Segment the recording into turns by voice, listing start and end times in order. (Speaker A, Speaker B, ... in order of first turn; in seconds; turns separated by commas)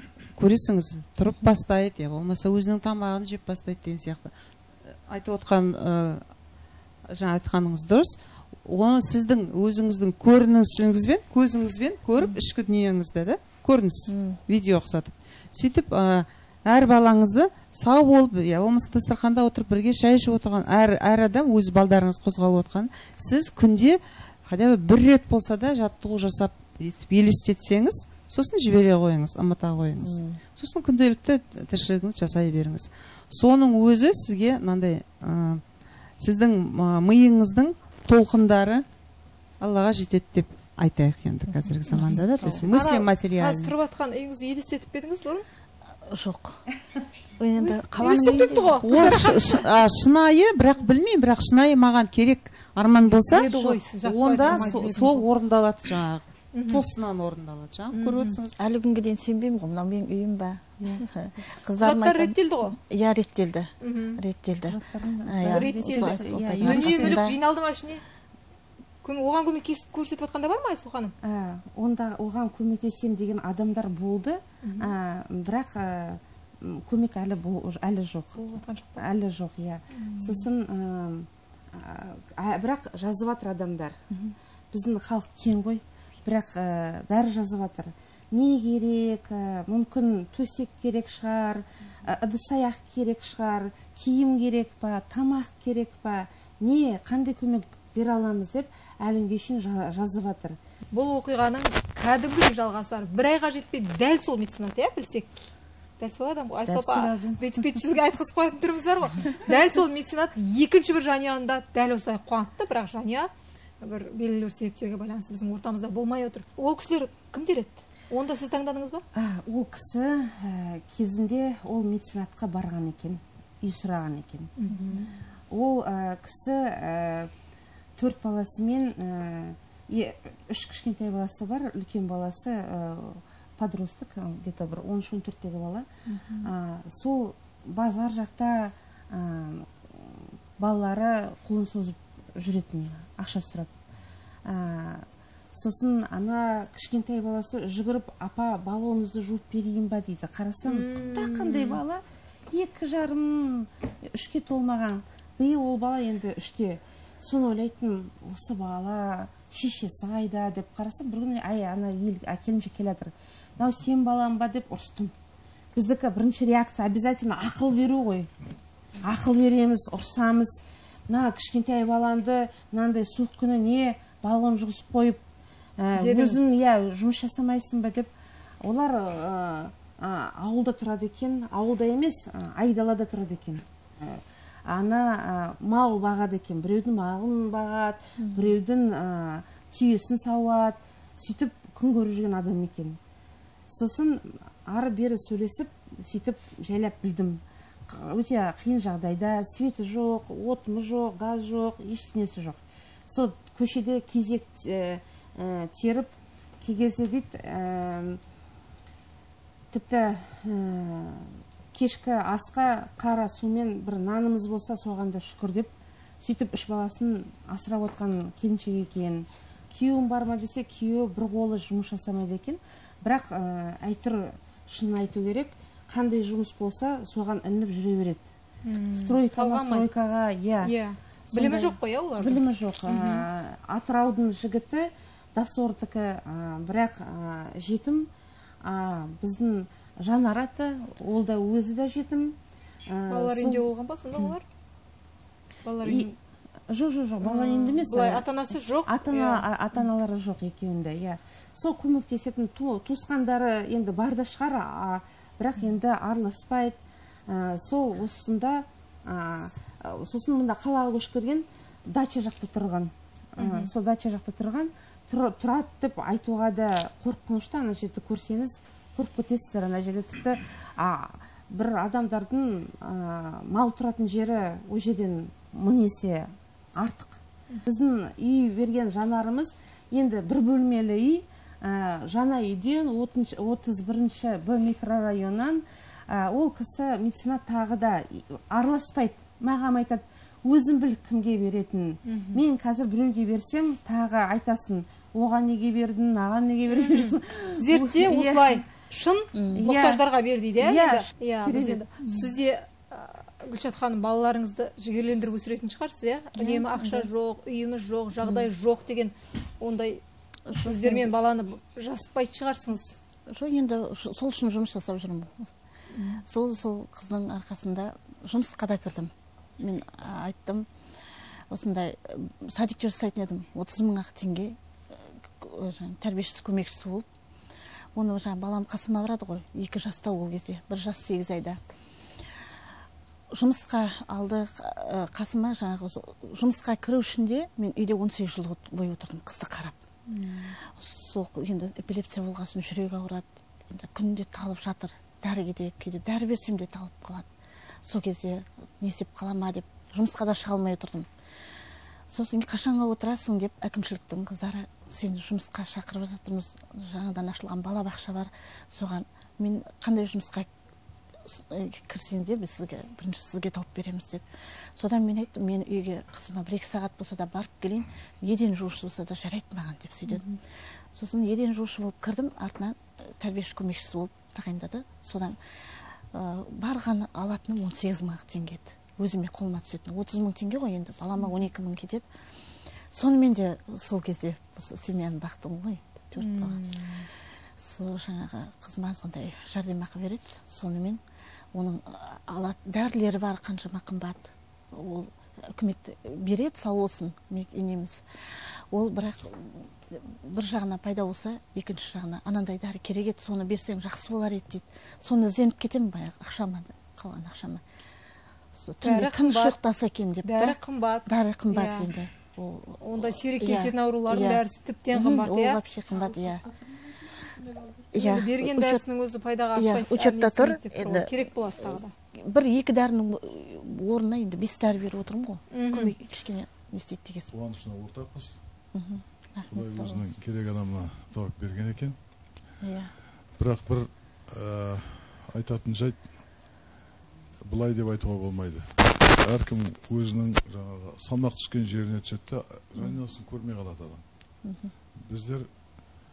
Speaker A: 0.3-4.3, Speaker A: 4.9-6.2, Speaker A: 7.1-35.6, Speaker B: 14.1-14.4, Speaker B: 30.0-30.4, Speaker A: 36.2-38.8, Speaker A: 39.6-43.7, Speaker B: 41.9-42.7, Speaker C: 42.7-45.4, Speaker B: 46.1-46.6, Speaker B: 47.4-49.2, Speaker C: 47.6-49.6, Speaker A: 48.8-58.6, Speaker C: 53.3-55.3, Speaker B: 53.3-53.7, Speaker C: 56.5-56.9, Speaker C: 57.9-58.4, Speaker B: 58.6-67.4, Speaker C: 61.8-62.8, Speaker C: 63.8-64.2, Speaker D: 64.7-67.2, Speaker C: 65.5-68.0, Speaker C: 69.0-71.1, Speaker D: 71.2-78.3, Speaker C: 74.6-74.9, Speaker C: 78.3-79.0, Speaker D: 79.0-84.0, Speaker C: 79.9-80.5, Speaker D: 84.7-100.6, Speaker C: 100.9-105.3, Speaker C: 106.0-119.0, Speaker D: 106.7-107.4, Speaker D: 119.1-124.5, Speaker C: 124.6-124.8, Speaker D: 125.5-127.3, Speaker D: 128.0-135.9, Speaker C: 136.1-136.5, Speaker D: 136.4-143.7, Speaker D: 144.4-165.1, Speaker C: 150.7-151.8, Speaker D: 165.7-168.3, Speaker D: 169.0-175.2, Speaker D: 175.8-178.1, Speaker C: 175.9-176.5, Speaker D: 178.6-193.0, Speaker B: 188.3-188.6, Speaker D: 193.7-206.1, Speaker D: 206.6-208.2, Speaker D: 209.7-228.2, Speaker C: 228.6-229.9, Speaker D: 229.0-230.7, Speaker C: 230.6-233.2, Speaker D: 231.3-238.1, Speaker D: 238.6-242.3, Speaker D: 242.9-243.6, Speaker C: 243.1-244.4, Speaker C: 245.6-246.1, Speaker D: 246.7-248.3, Speaker C: 247.2-249.4, Speaker D: 248.8-298.6, Speaker C: 263.4-263.7, Speaker C: 292.1-292.4, Speaker C: 296.7-310.0, Speaker B: 299.3-299.6, Speaker D: 299.5-301.9, Speaker B: 306.3-307.1, Speaker B: 308.2-308.5, Speaker B: 310.5-311.1, Speaker C: 310.6-312.9, Speaker B: 313.3-315.5, Speaker C: 315.9-316.2, Speaker B: 316.1-320.7, Speaker B: 321.5-327.1, Speaker B: 327.9-331.6, Speaker B: 333.3-339.8, Speaker C: 340.1-340.5, Speaker B: 340.6-347.3, Speaker B: 347.8-351.1, Speaker B: 352.1-360.5, Speaker B: 361.2-370.4, Speaker B: 370.9-375.4, Speaker B: 376.1-382.0, Speaker B: 382.9-386.7, Speaker C: 386.2-387.1, Speaker B: 387.6-391.0, Speaker B: 391.5-398.1, Speaker B: 398.7-407.6, Speaker B: 408.5-412.8, Speaker C: 408.8-409.6, Speaker C: 410.2-411.9, Speaker C: 412.8-415.6, Speaker B: 413.4-416.4, Speaker B: 417.9-418.8, Speaker C: 417.9-421.9, Speaker B: 419.5-427.3, Speaker C: 425.5-425.9, Speaker E: 427.3-428.4, Speaker B: 428.7-430.0, Speaker E: 429.5-432.0, Speaker B: 432.6-432.9, Speaker E: 433.3-436.1, Speaker E: 437.4-444.0, Speaker B: 444.4-444.7, Speaker E: 444.9-445.5